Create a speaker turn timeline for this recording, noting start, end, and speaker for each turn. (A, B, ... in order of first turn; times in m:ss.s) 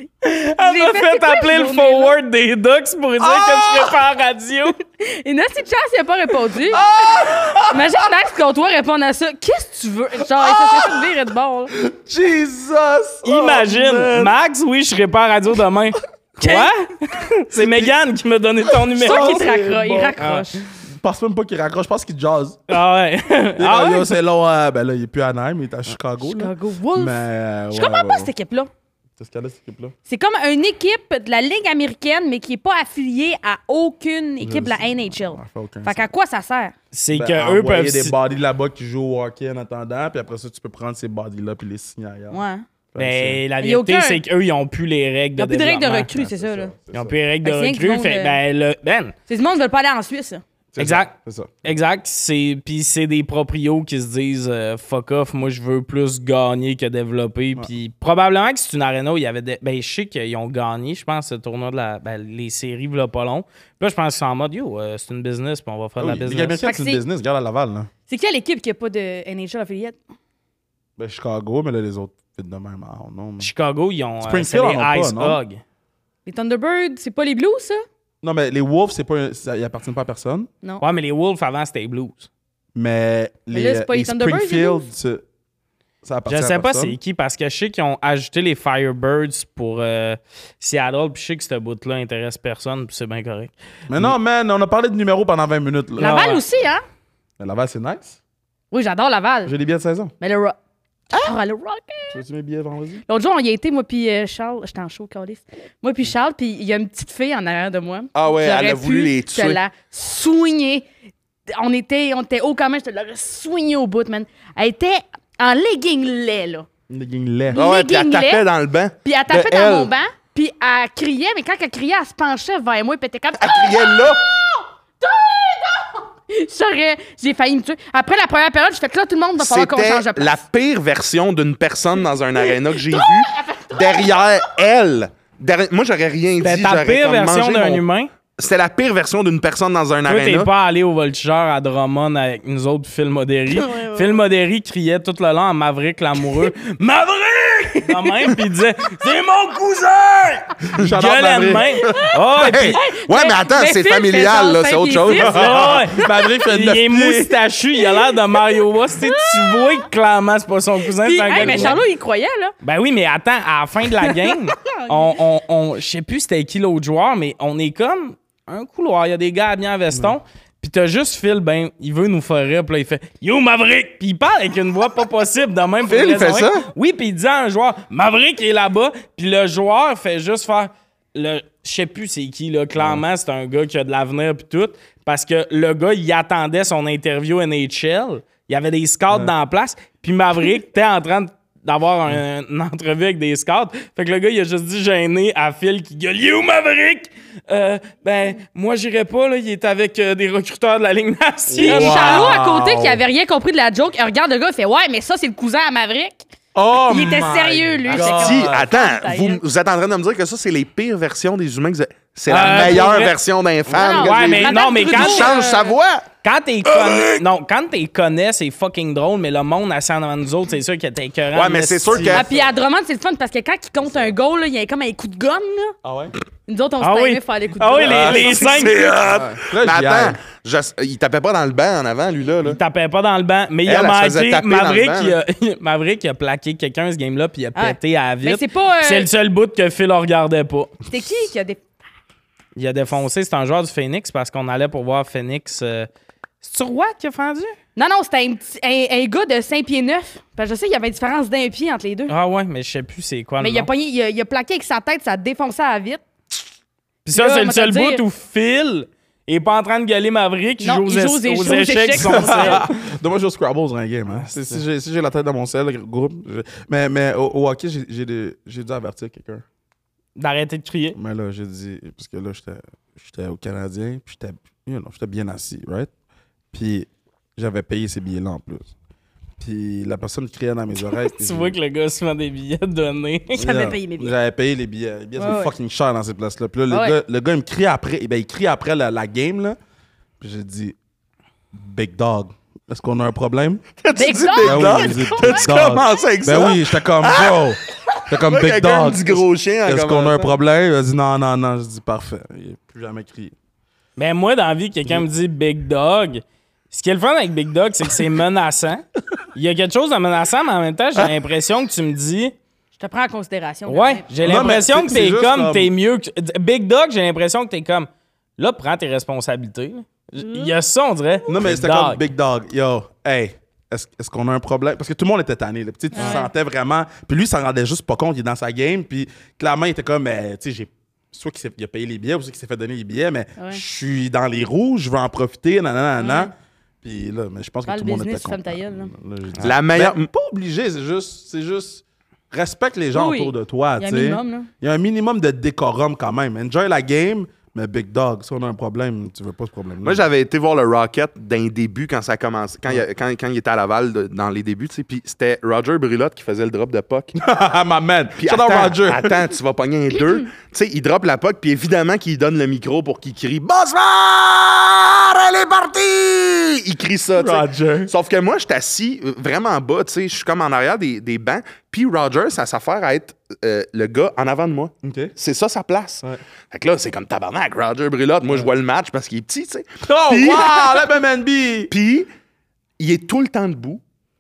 0:00.2-0:04.8 A
0:00.6-0:02.2 B
0:03.2-0:03.9 C
0:05.0-0:06.9 B
0:06.6-0:08.1 C
0:07.5-0:11.7 B
0:10.4-0:11.1 C
0:11.7-0:14.3 C
0:13.2-0:19.5 A
0:16.4-0:16.7 B
0:17.6-0:17.9 C
0:18.8-0:20.2 C
0:19.0-0:20.6 B
0:20.2-0:20.5 A
0:21.0-0:22.7 C
0:22.7-0:24.1 A
0:23.6-0:28.3 C
0:26.2-0:28.7 B
0:29.2-0:29.9 C
0:30.1-0:36.7 B
0:34.4-0:36.1 C
0:36.9-0:38.1 A
0:37.1-0:42.4 C
0:42.3-0:42.6 B
0:42.9-0:43.4 C
0:43.0-0:46.1 A
0:43.6-0:44.2 B
0:45.4-0:46.7 B
0:46.1-0:47.1 C
0:46.9-0:49.1 A
0:47.4-0:48.4 B
0:49.3-0:50.4 B
0:50.7-0:51.6 C
0:50.8-1:06.6 A
1:06.0-1:07.9 C
1:06.6-1:07.0 B
1:08.1-1:10.0 B
1:11.0-1:13.5 C
1:13.4-1:15.6 A
1:14.2-1:15.4 C
1:16.2-1:17.8 B
1:18.2-1:20.5 C
1:20.8-1:22.3 A
1:22.7-1:25.2 C
1:23.5-1:24.9 B
1:26.0-1:27.0 C
1:26.3-1:34.1 A
1:33.9-1:36.2 C
1:36.0-1:36.4 A
1:36.0-1:36.8 B
1:37.4-1:38.2 C
1:38.7-1:39.5 B
1:39.4-1:40.1 C
1:40.2-1:40.6 B
1:41.1-1:42.2 B
1:42.1-1:43.0 C
1:43.1-1:50.8 B
1:48.1-1:49.6 D
1:51.5-1:56.7 B
1:56.9-1:57.6 C
1:57.5-1:58.4 B
1:57.5-1:59.9 D
1:59.0-2:10.4 B
2:03.4-2:04.2 D
2:09.4-2:17.8 D
2:12.4-2:14.3 B
2:16.4-2:18.1 A
2:18.4-2:20.5 D
2:20.0-2:32.8 A
2:23.5-2:24.2 B
2:27.9-2:28.3 B
2:30.7-2:31.8 C
2:32.4-2:35.8 D
2:32.4-2:35.6 B
2:35.2-2:41.8 A
2:35.4-2:37.4 C
2:37.8-2:39.8 B
2:41.0-2:42.5 B
2:41.3-2:41.8 C
2:42.6-3:22.4 A
2:44.0-2:45.2 B
2:55.9-2:56.7 D
3:02.8-3:03.0 C
3:21.6-3:23.0 C
3:21.6-3:26.2 B
3:26.6-3:28.7 C
3:26.9-3:29.4 B
3:27.9-3:36.1 D
3:32.3-3:33.1 A
3:32.4-3:33.0 B
3:33.7-3:35.8 B
3:33.8-3:35.4 A
3:36.2-3:42.2 A
3:36.7-3:37.2 D
3:41.3-3:42.3 D
3:41.9-3:42.5 C
3:42.1-3:45.8 B
3:45.8-3:46.1 C
3:46.5-3:49.1 B
3:46.8-3:48.8 A
3:47.8-3:50.2 C
3:48.0-3:52.6 D
3:52.4-4:00.7 A
3:53.6-3:55.2 D
3:57.6-3:59.1 B
4:00.9-4:01.6 B
4:02.6-4:05.9 A
4:06.4-4:07.6 A
4:07.8-4:12.1 B
4:12.1-4:13.7 A
4:13.4-4:16.0 B
4:17.1-4:22.7 A
4:17.1-4:18.0 B
4:20.6-4:22.7 B
4:22.0-4:29.4 C
4:24.2-4:24.6 A
4:30.2-4:31.0 A
4:30.9-4:35.9 C
4:36.5-4:38.7 C
4:39.4-4:41.6 C
4:41.2-4:43.4 A
4:43.4-4:44.1 B
4:43.4-4:49.6 C
4:45.2-4:45.5 B
4:46.7-4:47.0 B
4:50.2-4:50.8 C
4:51.5-4:53.6 C
4:53.8-5:00.4 D
4:54.0-4:55.8 B
4:54.4-5:03.4 C
5:04.0-5:12.4 A
5:12.8-5:14.1 B
5:13.7-5:22.0 A
5:14.2-5:15.7 C
5:20.2-5:20.5 B
5:21.3-5:50.0 C
5:25.9-5:26.3 B
5:25.9-5:26.2 A
5:33.4-5:33.6 B
5:36.0-5:36.3 B
5:37.7-5:38.9 B
5:39.4-5:40.0 D
5:42.9-5:44.5 B
5:49.8-5:57.1 D
5:57.2-5:59.2 C
5:58.2-6:20.9 D
6:07.1-6:07.9 C
6:14.8-6:15.1 C
6:18.3-6:18.5 C
6:19.8-6:21.7 C
6:21.7-6:22.1 D
6:22.8-6:23.8 D